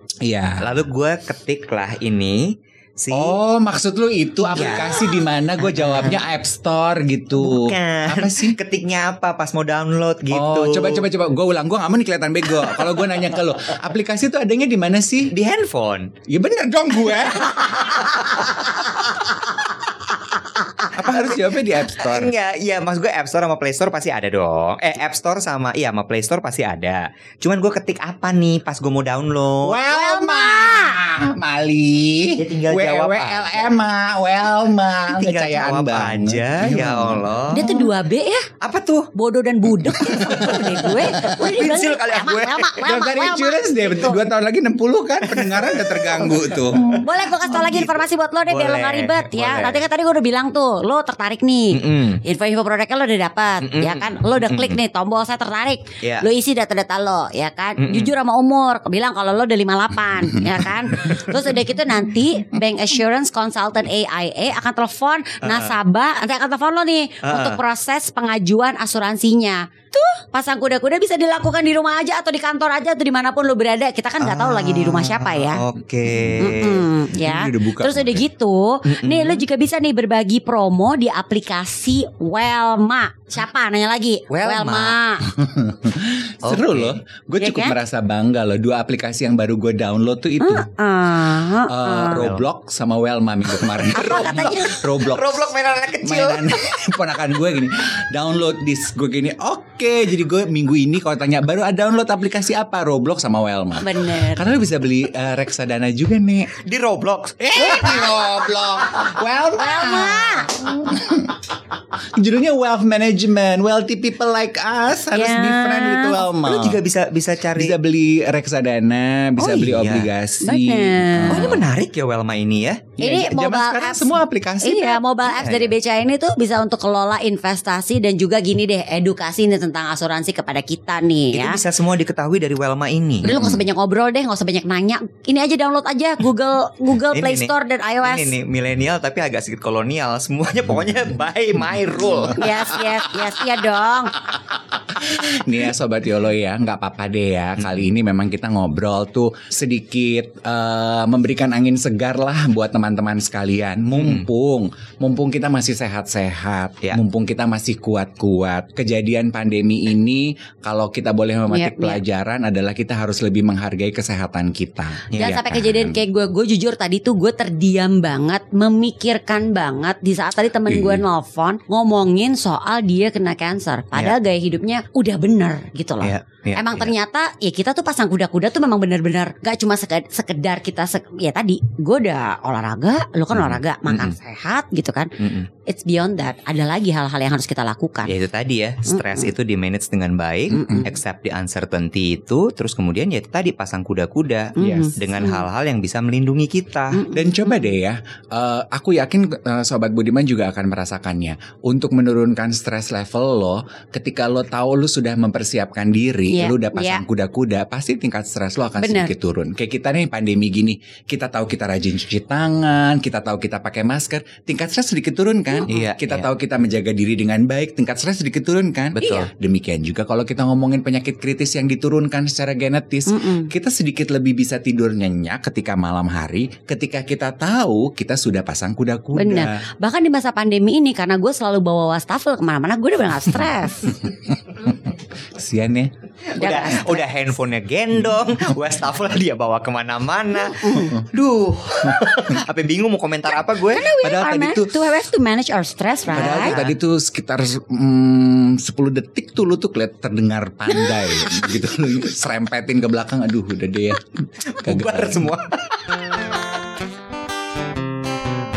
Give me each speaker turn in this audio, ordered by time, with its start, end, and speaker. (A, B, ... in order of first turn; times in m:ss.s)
0:00.2-0:00.8 A
0:00.6-0:03.4 B
0:03.1-0:08.6 A
0:04.5-0:05.0 B
0:05.6-0:06.2 B
0:07.4-0:11.1 B
0:10.3-0:15.3 A
0:15.3-0:16.2 B
0:16.3-0:18.5 A
0:20.9-0:22.3 A
0:22.0-0:29.8 B
0:29.6-0:37.7 A
0:29.9-0:31.0 C
0:32.4-0:33.7 B
0:35.1-0:37.7 B
0:37.5-0:38.5 C
0:38.6-0:39.1 B
0:39.2-0:44.2 C
0:39.8-0:42.7 B
0:40.0-0:40.6 A
0:42.8-0:47.0 A
0:45.2-0:49.8 B
0:47.0-1:15.6 C
0:51.7-0:52.2 B
0:53.6-0:54.8 B
0:57.8-0:58.1 B
1:05.4-1:05.7 B
1:07.2-1:07.6 B
1:14.2-1:16.9 B
1:16.4-1:25.3 C
1:17.2-1:18.2 A
1:18.9-1:19.4 B
1:24.3-1:25.0 B
1:25.3-1:30.7 A
1:26.4-1:27.0 B
1:27.4-1:27.8 C
1:30.4-1:32.2 C
1:31.7-1:46.6 A
1:32.1-1:32.5 B
1:33.8-1:36.5 B
1:33.9-1:34.8 C
1:43.8-1:44.4 C
1:46.6-1:47.4 B
1:47.4-1:51.4 A
1:47.6-1:48.2 C
1:49.6-1:50.7 C
1:52.2-1:56.8 A
1:55.1-1:56.2 C
1:56.4-1:57.8 B
1:57.6-2:01.6 A
1:59.4-1:59.6 C
1:59.5-2:00.1 B
2:00.4-2:01.5 C
2:01.3-2:03.0 B
2:03.0-2:05.5 A
2:03.0-2:11.6 C
2:11.3-2:13.4 B
2:13.2-2:18.3 C
2:17.1-2:17.5 B
2:18.0-2:22.5 B
2:22.4-2:24.1 C
2:24.9-2:46.0 A
2:27.6-2:27.9 B
2:34.0-2:34.3 B
2:41.5-2:42.0 C
2:45.2-3:05.1 C
2:50.7-2:51.0 A
2:56.0-2:56.9 B
3:03.3-3:04.2 B
3:05.2-3:05.5 B
3:05.7-3:08.1 C
3:08.1-3:17.0 B
3:08.9-3:09.2 C
3:10.5-3:10.9 C
3:14.6-3:15.4 C
3:14.6-3:15.0 A
3:16.9-3:17.7 C
3:17.1-3:49.6 A
3:26.3-3:27.0 C
3:28.8-3:29.1 C
3:35.7-3:36.3 B
3:39.0-3:39.3 B
3:39.0-3:39.3 C
3:43.1-3:43.5 C
3:49.1-3:54.0 C
3:54.3-3:54.8 A
3:55.4-3:56.8 A
3:56.3-4:03.9 B
4:00.6-4:01.0 C
4:01.9-4:02.2 A
4:03.6-4:06.7 C
4:04.0-4:04.8 A
4:06.1-4:15.3 A
4:06.1-4:06.8 B
4:14.5-4:15.8 B